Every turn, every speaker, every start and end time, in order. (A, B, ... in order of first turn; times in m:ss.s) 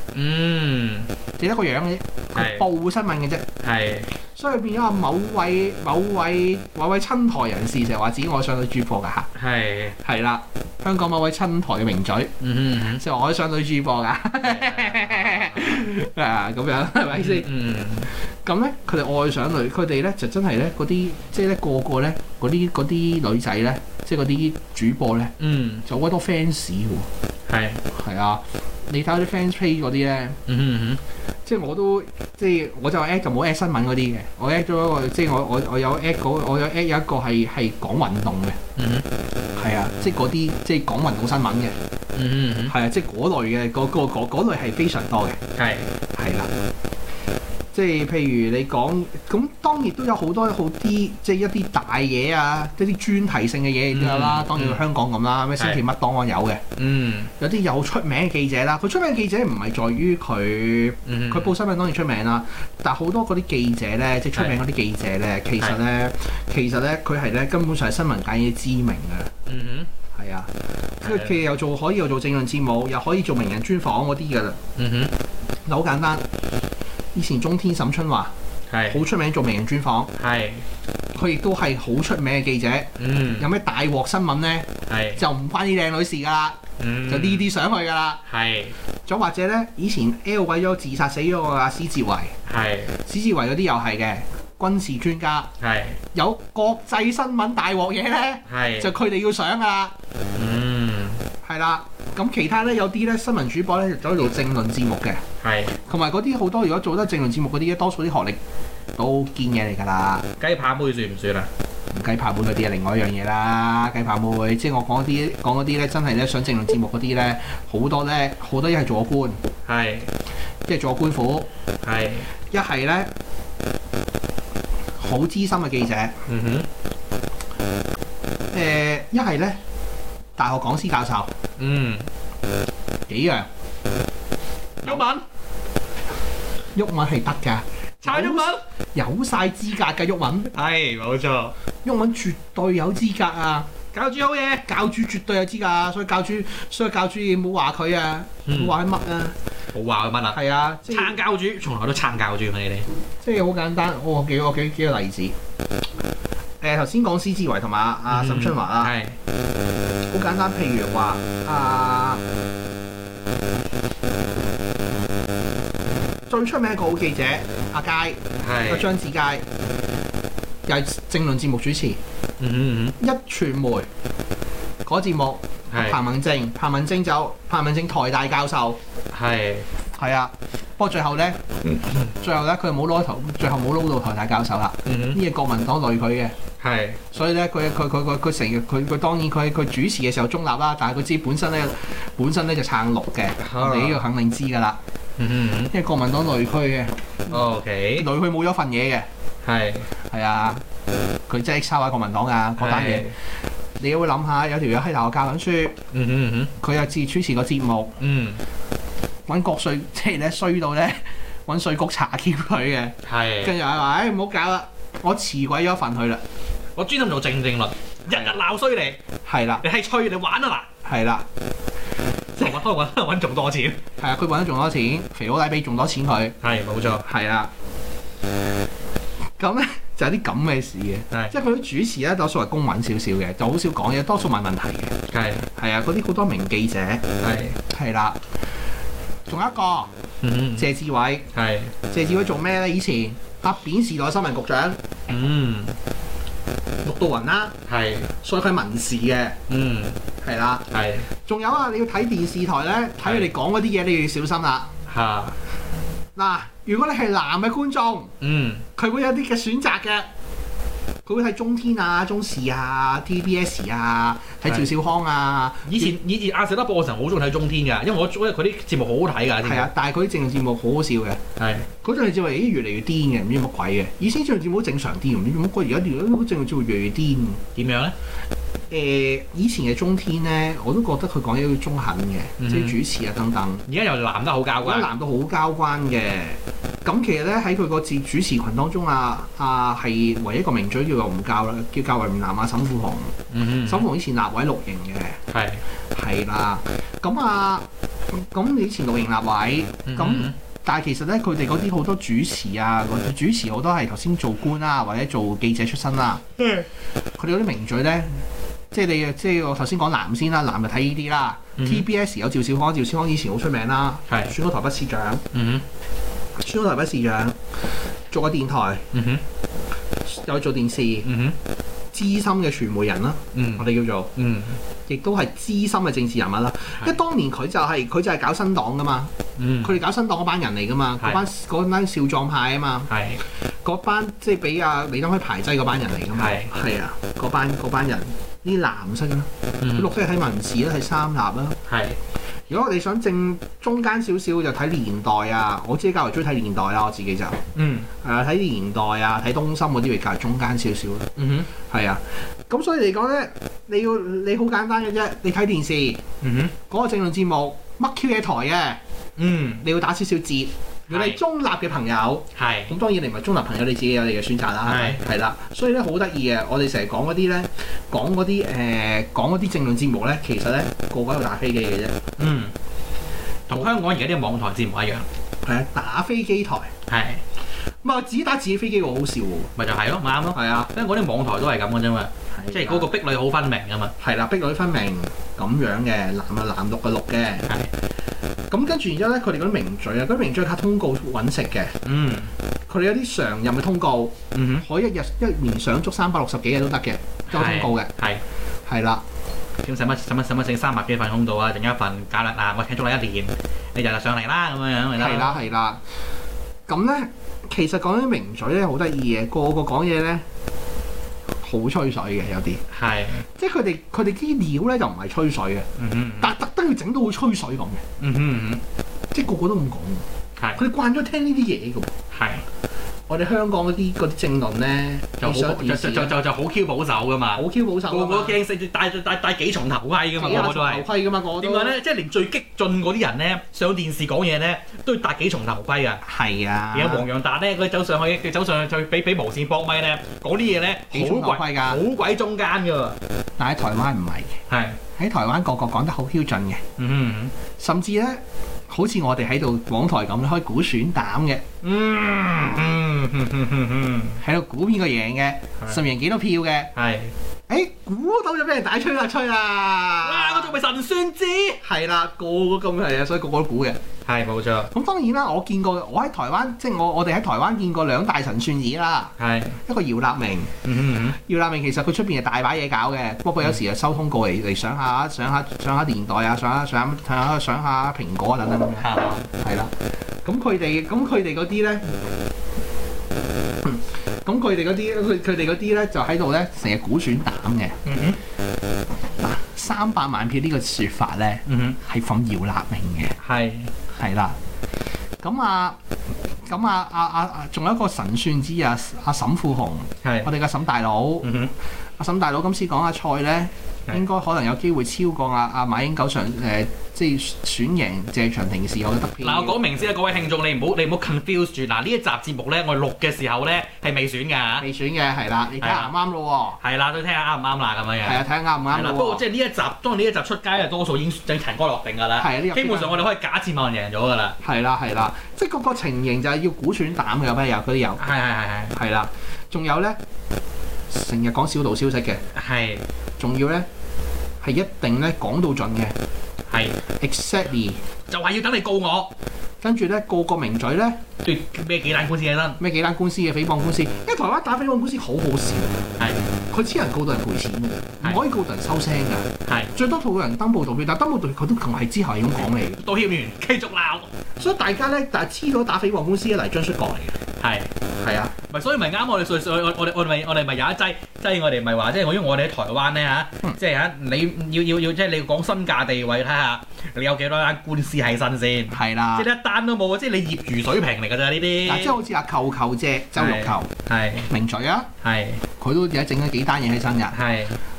0:00.1-0:01.1 A
0:01.4-0:03.4 B
0:02.3-0:02.6 A
0:03.6-0:04.1 A
0:04.3-0:09.3 B
0:09.3-0:10.0 A
0:10.0-0:12.3 B
0:12.4-0:13.0 A
0:13.0-0:17.5 B
0:14.4-0:15.9 A
0:17.2-0:18.1 A
0:18.3-0:25.3 B
0:25.4-0:25.8 A
0:25.9-0:27.1 B
0:27.5-0:27.8 A
0:27.9-0:30.4 B
0:30.5-0:31.0 A
0:31.4-0:38.6 B
0:38.8-0:39.1 A
0:39.6-0:41.8 B
0:42.1-0:42.8 A
0:42.7-0:45.4 B
0:45.6-0:45.9 A
0:46.1-0:46.5 B
0:47.7-0:56.6 B
0:53.9-0:54.8 A
0:55.6-0:55.8 A
0:56.8-0:57.3 A
0:57.4-1:09.3 B
1:01.1-1:01.6 A
1:09.5-1:09.9 A
1:10.1-1:14.6 B
1:11.0-1:11.4 A
1:14.8-1:15.1 A
1:15.6-1:16.2 B
1:17.1-1:18.3 B
1:18.7-1:19.0 A
1:18.9-1:20.1 B
1:20.2-1:20.6 A
1:21.1-1:28.2 B
1:23.0-1:23.5 A
1:24.9-1:25.2 A
1:26.8-1:27.4 A
1:28.3-1:28.8 A
1:29.1-1:32.3 B
1:32.4-1:33.0 A
1:33.1-1:35.5 B
1:35.6-1:36.0 A
1:36.1-1:39.9 B
1:38.5-1:38.9 A
1:40.3-1:41.2 A
1:41.4-1:45.2 B
1:45.4-1:45.8 A
1:45.9-1:48.4 B
1:49.0-1:50.3 B
1:50.4-1:51.5 A
1:51.9-1:59.4 B
1:59.6-2:00.1 A
2:00.7-2:01.5 B
2:01.8-2:02.3 A
2:02.5-2:03.1 B
2:05.0-2:06.1 B
2:06.3-2:06.7 A
2:08.5-2:09.6 B
2:10.4-2:11.3 B
2:11.6-2:12.1 A
2:13.1-2:13.5 B
2:14.8-2:15.2 A
2:16.8-2:20.5 B
2:18.0-2:18.6 A
2:20.5-2:21.5 A
2:21.8-2:23.7 B
2:23.9-2:24.7 A
2:24.7-2:29.3 B
2:28.5-2:28.8 A
2:29.7-2:32.9 A
2:30.3-2:31.2 B
2:33.2-2:35.4 B
2:36.6-2:38.9 B
2:38.1-2:39.2 A
2:40.1-2:42.2 B
2:46.3-2:49.4 B
2:48.4-2:48.9 A
2:50.6-2:52.0 B
2:52.4-2:53.0 A
2:53.0-2:53.9 B
2:54.8-2:58.8 B
2:55.7-2:56.0 A
2:59.1-2:59.7 A
2:59.9-3:01.4 B
3:02.1-3:06.3 B
3:04.9-3:05.2 A
3:06.6-3:07.0 A
3:07.1-3:14.8 B
3:13.4-3:14.0 A
3:15.2-3:15.7 A
3:15.7-3:19.1 B
3:17.3-3:18.1 A
3:19.4-3:19.9 A
3:20.1-3:20.6 B
3:21.3-3:23.1 B
3:22.6-3:23.1 A
3:23.8-3:25.8 B
3:25.9-3:26.5 A
3:26.6-3:27.9 B
3:28.0-3:28.4 A
3:29.3-3:36.2 B
3:33.0-3:33.6 A
3:36.8-3:39.0 A
3:38.1-3:38.4 B
3:39.2-3:39.6 B
3:39.6-3:40.7 A
3:40.8-3:41.3 B
3:42.3-3:43.8 A
3:44.0-3:46.3 B
3:46.4-3:47.0 A
3:47.0-3:47.5 B
3:49.4-3:54.9 B
3:51.1-3:51.4 A
3:55.1-3:55.5 A
3:55.6-3:57.0 B
3:57.2-3:57.6 A
3:57.7-3:58.2 B
3:59.3-3:59.9 B
4:00.2-4:00.7 A
4:00.6-4:01.3 B
4:01.3-4:01.7 A
4:01.9-4:04.8 B
4:05.1-4:05.8 A
4:06.8-4:07.6 B
4:07.7-4:08.1 A
4:08.2-4:09.4 B
4:09.5-4:10.0 A
4:10.2-4:10.7 B
4:10.7-4:11.1 A
4:11.2-4:14.7 B
4:13.0-4:13.3 A
4:14.9-4:15.4 A
4:16.2-4:18.1 B
4:18.2-4:18.7 A
4:18.8-4:20.1 B
4:21.0-4:26.0 B
4:25.7-4:29.7 A
4:29.4-4:31.2 B
4:31.4-4:31.7 A
4:31.8-4:37.4 B
4:37.6-4:37.9 A
4:38.7-4:43.6 B
4:42.4-4:42.8 A
4:43.7-4:44.9 A
4:44.6-4:55.2 B
4:53.3-4:53.9 A
4:55.3-4:55.6 A
4:55.9-5:06.2 B
4:59.9-5:00.3 A
5:07.2-5:15.2 B
5:11.6-5:11.8 A
5:14.1-5:14.3 A
5:15.3-5:15.6 A
5:16.4-5:17.4 B
5:18.1-5:18.8 B
5:18.9-5:19.2 A
5:20.1-5:21.1 B
5:21.0-5:21.4 A
5:21.9-5:24.1 B
5:23.3-5:24.6 A
5:24.9-5:32.9 B
5:29.4-5:29.8 A
5:32.9-5:33.2 A
5:33.6-5:41.6 B
5:36.2-5:36.5 A
5:39.6-5:39.9 A
5:41.7-5:42.0 A
5:42.5-5:47.4 B
5:47.6-5:47.9 A
5:47.9-5:56.0 B
5:51.2-5:51.5 A
5:56.2-5:56.6 A
5:56.7-5:58.8 B
5:59.2-5:59.7 A
5:59.6-6:12.0 B
6:00.9-6:01.2 A
6:02.3-6:02.7 A
6:04.7-6:05.0 A
6:12.2-6:12.5 A
6:13.5-6:15.1 A
6:15.4-6:16.7 B
6:16.9-6:17.2 A
6:17.8-6:19.5 B
6:19.6-6:23.9 A
6:20.3-6:20.7 B
6:22.3-6:22.9 B
6:24.0-6:27.5 B
6:28.5-6:31.8 B
6:31.8-6:32.3 A
6:32.7-6:37.9 B
6:34.3-6:34.7 A
6:37.3-6:38.2 A
6:38.7-6:39.0 B
6:39.6-6:45.4 A
6:45.0-6:45.8 B
6:46.7-6:50.2 B
6:51.4-6:52.6 B
6:52.7-6:53.2 A
6:53.4-6:55.7 B
6:55.8-6:56.3 A
6:56.2-6:57.8 B
6:58.0-6:58.6 A
6:59.1-7:00.0 B
7:00.4-7:00.6 A
7:00.6-7:01.9 B
7:02.1-7:02.4 A
7:03.1-7:06.2 B
7:05.2-7:10.8 A
7:07.4-7:08.4 B
7:10.2-7:11.8 B
7:11.4-7:16.0 A
7:16.0-7:17.1 B
7:16.7-7:23.0 A
7:20.9-7:21.8 B
7:23.4-7:24.4 B
7:24.5-7:24.8 A
7:25.0-7:26.6 B
7:26.8-7:27.3 A
7:27.6-7:31.4 B
7:31.6-7:34.2 A
7:34.2-7:36.7 B
7:36.8-7:37.1 A
7:37.5-7:40.6 B
7:40.0-7:41.6 A
7:41.6-7:43.8 B
7:44.1-7:44.7 A
7:44.7-7:49.1 B
7:49.2-7:49.6 A
7:49.7-7:50.5 B
7:50.6-7:51.2 A
7:51.1-7:59.7 B
7:58.8-7:59.3 A
8:00.2-8:02.0 B
8:03.6-8:07.8 B
8:07.8-8:08.2 A
8:09.2-8:13.2 B
8:11.5-8:11.8 A
8:13.2-8:13.7 A
8:13.9-8:14.4 B
8:15.2-8:15.8 B
8:16.4-8:21.3 B
8:20.0-8:20.3 A
8:21.2-8:21.5 A
8:22.0-8:29.6 B
8:29.2-8:34.7 A
8:34.6-8:36.6 B
8:35.6-8:35.9 A
8:36.6-8:44.4 A
8:38.0-8:39.2 B
8:42.2-8:43.0 B
8:44.4-8:48.0 B
8:48.0-8:48.8 A
8:48.7-8:50.0 B
8:50.9-8:52.2 B
8:52.3-8:52.8 A
8:53.2-8:53.6 B
8:54.4-8:56.0 B
8:56.5-8:56.8 A
8:57.0-8:57.8 B
8:58.1-8:59.1 A
8:59.6-9:01.0 B
9:01.2-9:02.6 A
9:02.6-9:05.9 B
9:06.0-9:06.3 A
9:06.5-9:12.8 B
9:09.4-9:09.7 A
9:12.8-9:14.1 A
9:14.4-9:17.2 B
9:17.4-9:17.7 A
9:18.0-9:18.3 B
9:18.4-9:32.0 A
9:28.7-9:29.3 B
9:31.6-9:33.7 B
9:33.2-9:34.3 A
9:34.3-9:34.9 B
9:35.0-9:35.4 A
9:35.6-9:37.1 B
9:37.1-9:37.6 A